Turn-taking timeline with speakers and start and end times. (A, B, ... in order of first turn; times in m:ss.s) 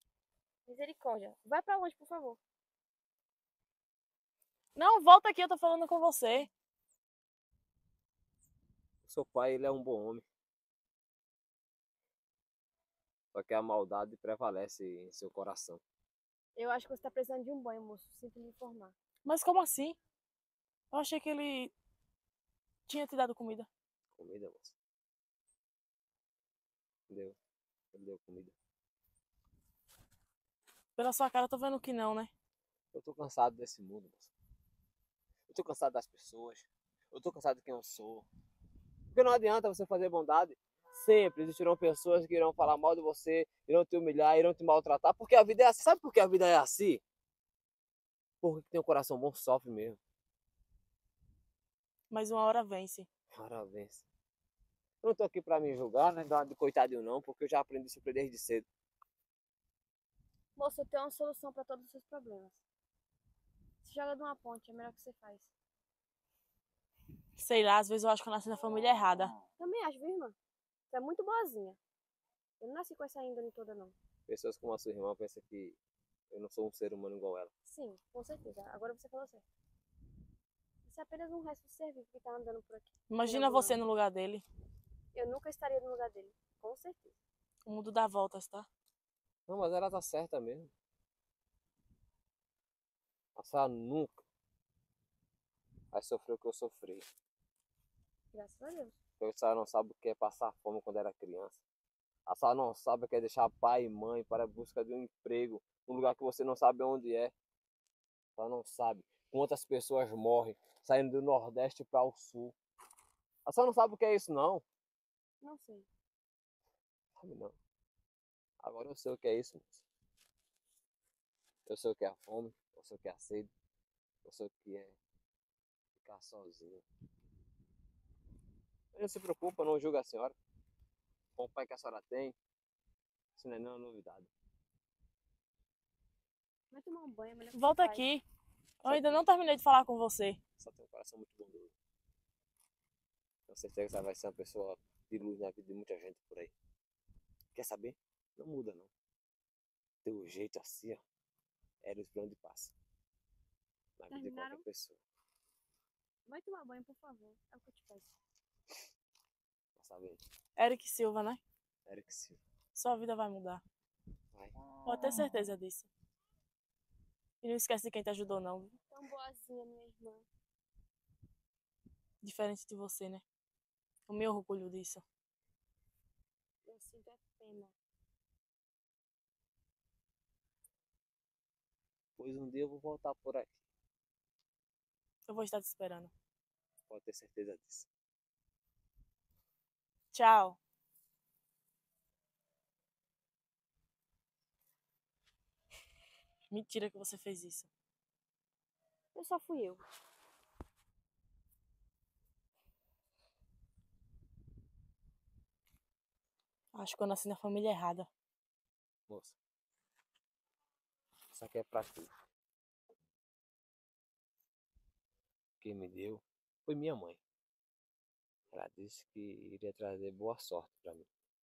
0:00.7-0:02.4 A
0:04.8-0:06.5 B
0:09.0-0:10.2 C
0:13.3-0:15.8 C
0:16.6-0:18.9 A
0:19.2-0:20.0 B
0:20.9-0:21.7 B
0:22.9-0:23.7 B
0:24.2-0:24.8 C
0:27.1-0:27.4 C
0:27.9-0:28.5 C
0:31.0-0:32.3 B
0:32.9-0:34.3 C
0:35.5-0:38.3 C
0:39.1-0:47.0 C
0:48.4-0:50.0 C
0:52.1-0:53.1 B
0:53.3-0:54.0 C
0:55.0-0:58.6 C
1:00.6-1:02.6 A
1:03.8-1:05.5 A
1:07.4-1:09.3 B
1:09.6-1:10.4 A
1:10.9-1:11.8 A
1:12.6-1:13.9 A
1:14.3-1:15.8 C
1:16.3-1:17.5 C
1:17.6-1:19.4 A
1:20.8-1:23.8 A
1:23.1-1:24.4 B
1:25.1-1:27.2 A
1:27.6-1:28.7 B
1:29.5-1:30.7 C
1:33.4-1:34.2 C
1:35.9-1:37.1 C
1:38.3-1:38.9 A
1:39.2-1:41.6 C
1:42.3-1:47.3 C
1:48.4-1:52.5 C
1:53.4-1:54.6 C
1:55.4-1:55.9 A
1:57.2-1:57.5 C
1:58.6-1:59.8 C
2:01.6-2:03.5 C
2:04.2-2:05.0 C
2:06.0-2:06.8 C
2:08.9-2:10.3 C
2:11.4-2:12.3 C
2:13.4-2:14.3 C
2:16.7-2:18.0 A
2:17.5-2:18.2 B
2:18.8-2:20.4 B
2:18.8-2:19.2 C
2:20.6-2:21.7 C
2:23.5-2:26.5 C
2:27.5-2:28.9 C
2:30.0-2:31.0 C
2:31.8-2:32.7 C
2:34.0-2:35.0 C
2:34.1-2:34.6 A
2:36.3-2:38.1 A
2:39.8-2:40.2 C
2:40.6-2:41.4 B
2:41.9-2:42.4 C
2:42.7-2:43.6 B
2:44.8-2:45.9 B
2:47.4-2:48.8 B
2:48.9-2:50.2 A
2:52.2-2:53.2 B
2:54.1-2:55.0 B
2:56.6-2:57.7 A
3:02.2-3:03.6 C
3:05.3-3:06.1 B
3:06.9-3:07.9 C
3:10.1-3:10.6 B
3:16.5-3:17.7 B
3:19.1-3:19.8 A
3:26.7-3:28.1 B
3:29.1-3:29.4 C
3:31.3-3:32.1 C
3:35.6-3:37.2 C
3:38.5-3:41.1 C